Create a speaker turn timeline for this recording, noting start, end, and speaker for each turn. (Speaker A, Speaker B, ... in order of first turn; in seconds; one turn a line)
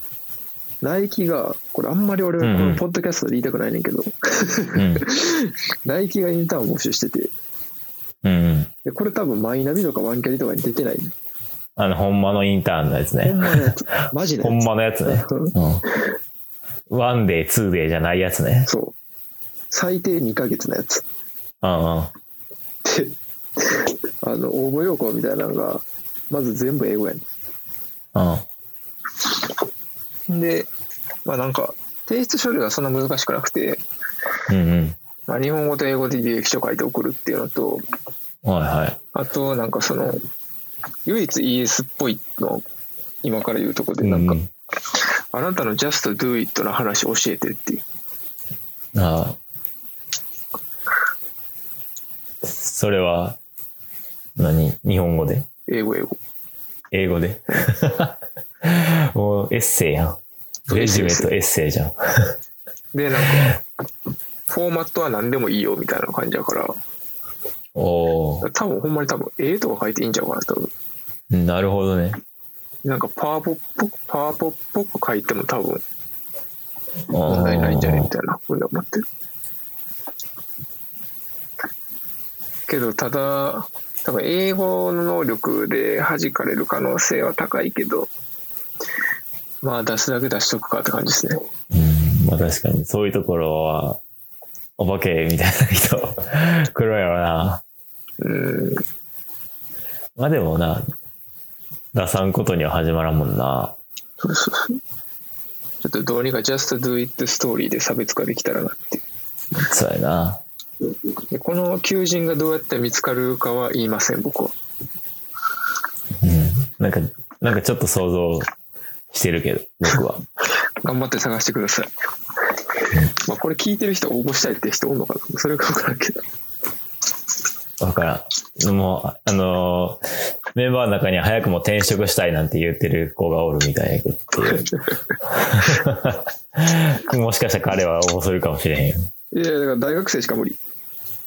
Speaker A: 0.8-7.3
Speaker B: 2.4-2.8
Speaker B: 4.8-5.0
Speaker B: 8.2-8.7
Speaker A: 8.8-11.1
Speaker B: 11.8-13.7
Speaker A: 13.2-15.6
Speaker B: 14.4-15.8
Speaker B: 16.9-18.7
Speaker A: 18.7-19.0
Speaker A: 19.7-21.0
Speaker B: 21.6-22.1
Speaker A: 22.9-27.2
Speaker B: 28.1-28.5
Speaker A: 30.3-30.7
Speaker A: 31.2-33.8
Speaker B: 34.5-35.0
Speaker A: 35.3-37.8
Speaker B: 38.5-39.0
Speaker A: 39.1-40.2
Speaker A: 41.1-42.6
Speaker A: 43.2-44.4
Speaker B: 44.0-44.5
Speaker A: 45.3-47.8
Speaker B: 49.0-49.4
Speaker B: 52.4-53.4
Speaker B: 54.4-55.5
Speaker A: 55.7-56.2
Speaker B: 56.9-62.4
Speaker A: 60.7-61.3
Speaker A: 62.9-63.6
Speaker A: 64.5-66.8
Speaker B: 67.8-68.5
Speaker A: 68.4-70.7
Speaker B: 71.3-72.2
Speaker A: 72.8-75.8
Speaker B: 77.1-78.1
Speaker A: 77.3-79.0
Speaker A: 82.7-88.1
Speaker A: 89.6-91.4
Speaker B: 91.7-94.0
Speaker B: 94.8-97.6
Speaker A: 98.2-98.8
Speaker B: 100.2-100.9
Speaker B: 101.9-103.8
Speaker A: 104.2-104.8
Speaker A: 105.8-109.0
Speaker B: 109.5-110.4
Speaker A: 111.3-114.5
Speaker B: 116.2-118.5
Speaker B: 119.1-120.2
Speaker A: 120.8-121.9
Speaker A: 123.1-126.2
Speaker B: 127.8-134.7
Speaker A: 134.5-134.8
Speaker B: 135.3-139.1
Speaker A: 139.3-140.6